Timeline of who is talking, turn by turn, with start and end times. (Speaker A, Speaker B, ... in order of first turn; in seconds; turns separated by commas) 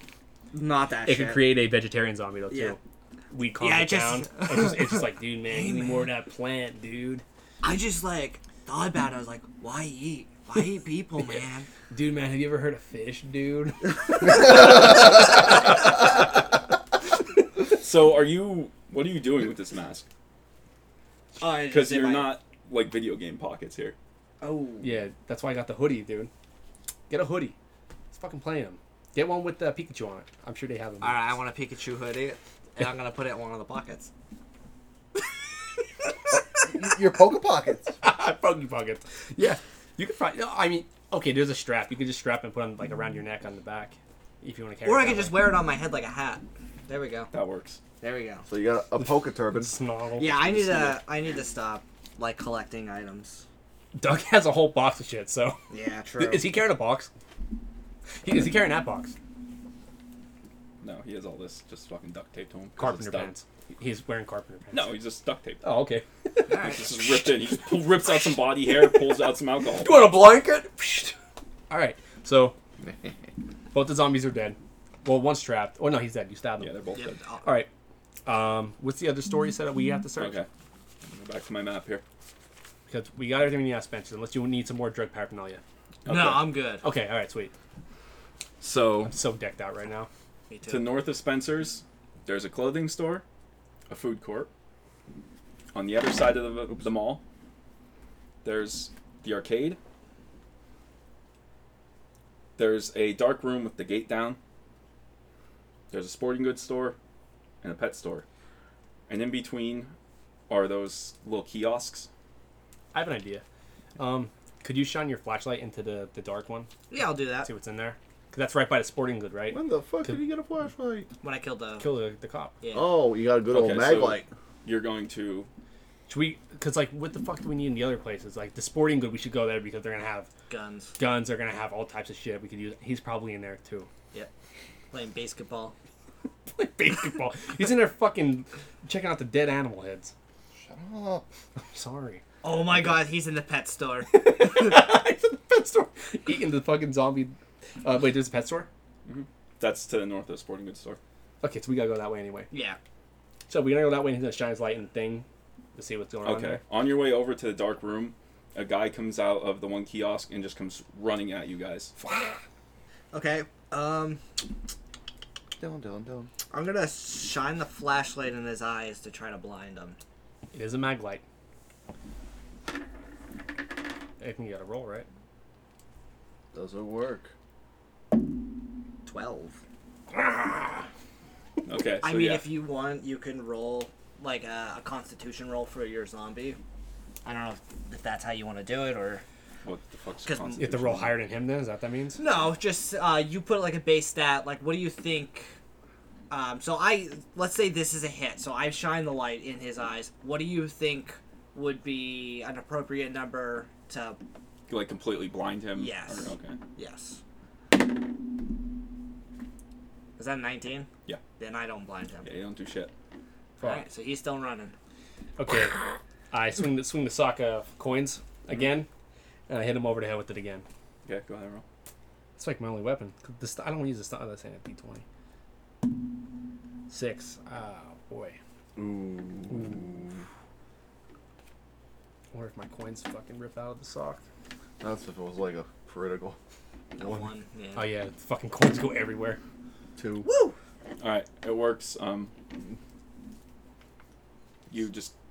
Speaker A: 0.5-1.5, Speaker B: 1.0-2.8, Speaker A: 2.5-2.8, Speaker B: 3.3-7.2, Speaker A: 3.6-6.1, Speaker A: 7.6-11.7, Speaker B: 11.2-15.4, Speaker C: 17.8-20.1, Speaker A: 21.4-22.3, Speaker C: 21.6-23.9, Speaker A: 24.4-24.9, Speaker B: 24.8-26.3, Speaker B: 27.1-27.5, Speaker B: 28.1-31.2, Speaker A: 31.0-34.1, Speaker D: 36.7-38.0, Speaker B: 38.0-45.5, Speaker A: 44.8-47.3, Speaker C: 47.3-47.8, Speaker A: 48.0-48.5, Speaker D: 48.5-49.7, Speaker B: 49.0-51.0, Speaker A: 50.2-53.4, Speaker B: 53.9-55.6, Speaker A: 55.7-56.5, Speaker B: 56.2-57.1, Speaker B: 58.2-59.1, Speaker C: 60.8-63.3, Speaker B: 62.8-65.0, Speaker C: 64.7-65.7, Speaker B: 65.6-66.7, Speaker A: 66.5-66.9, Speaker C: 66.5-70.2, Speaker B: 68.7-69.1, Speaker B: 69.7-71.1, Speaker B: 71.7-72.5, Speaker B: 73.7-76.8, Speaker C: 76.6-77.1, Speaker A: 77.0-77.5, Speaker B: 77.4-77.7, Speaker B: 78.2-80.4, Speaker C: 80.2-80.5, Speaker C: 81.0-82.0, Speaker B: 82.9-85.6, Speaker C: 86.0-86.5, Speaker A: 86.1-86.8, Speaker B: 86.8-87.5, Speaker C: 88.6-89.1, Speaker B: 89.1-90.1, Speaker A: 90.5-90.9, Speaker C: 90.7-93.2, Speaker C: 93.9-94.5, Speaker C: 95.7-97.2, Speaker C: 98.4-99.8, Speaker C: 102.6-104.4, Speaker C: 105.9-107.0, Speaker C: 107.6-108.2, Speaker C: 109.1-109.9, Speaker C: 110.5-112.1, Speaker B: 112.9-113.4, Speaker B: 114.0-116.7, Speaker A: 116.9-117.5, Speaker B: 117.4-120.2, Speaker D: 119.5-121.1, Speaker A: 121.2-121.9, Speaker B: 121.8-122.5, Speaker A: 122.6-122.9, Speaker D: 122.7-124.3, Speaker C: 123.5-125.5, Speaker B: 126.1-130.3, Speaker A: 130.5-130.9, Speaker B: 131.0-133.9, Speaker A: 134.9-135.7, Speaker B: 136.5-140.1, Speaker D: 140.5-141.2, Speaker B: 141.6-142.2, Speaker A: 142.4-144.5, Speaker B: 144.1-148.7, Speaker C: 149.1-151.0, Speaker B: 151.4-152.5, Speaker A: 152.5-152.8, Speaker B: 153.5-156.6, Speaker C: 156.2-161.9, Speaker A: 163.1-164.2, Speaker D: 165.6-166.3, Speaker A: 166.5-170.0, Speaker B: 170.5-171.2, Speaker B: 174.2-175.1, Speaker D: 176.5-177.3, Speaker A: 179.1-179.6, Speaker B: 180.3-180.8, Speaker C: 181.6-182.5, Speaker A: 182.0-186.6, Speaker A: 187.2-189.2, Speaker C: 189.6-191.2, Speaker A: 190.2-190.6, Speaker B: 190.6-192.2, Speaker A: 192.2-195.5, Speaker A: 196.3-204.2, Speaker C: 204.7-206.6, Speaker A: 205.7-207.2, Speaker A: 210.2-212.3, Speaker C: 212.2-212.9, Speaker A: 213.6-214.7, Speaker B: 215.4-218.9, Speaker B: 219.5-220.6, Speaker C: 221.0-221.6, Speaker B: 222.3-225.0, Speaker B: 226.9-228.4, Speaker D: 228.8-230.2, Speaker B: 229.5-229.8, Speaker B: 232.3-234.2, Speaker D: 234.8-236.4, Speaker A: 236.9-237.9, Speaker D: 236.9-237.2, Speaker B: 237.8-239.4, Speaker D: 239.9-240.2, Speaker A: 240.2-240.5, Speaker C: 241.0-242.3, Speaker C: 244.7-245.1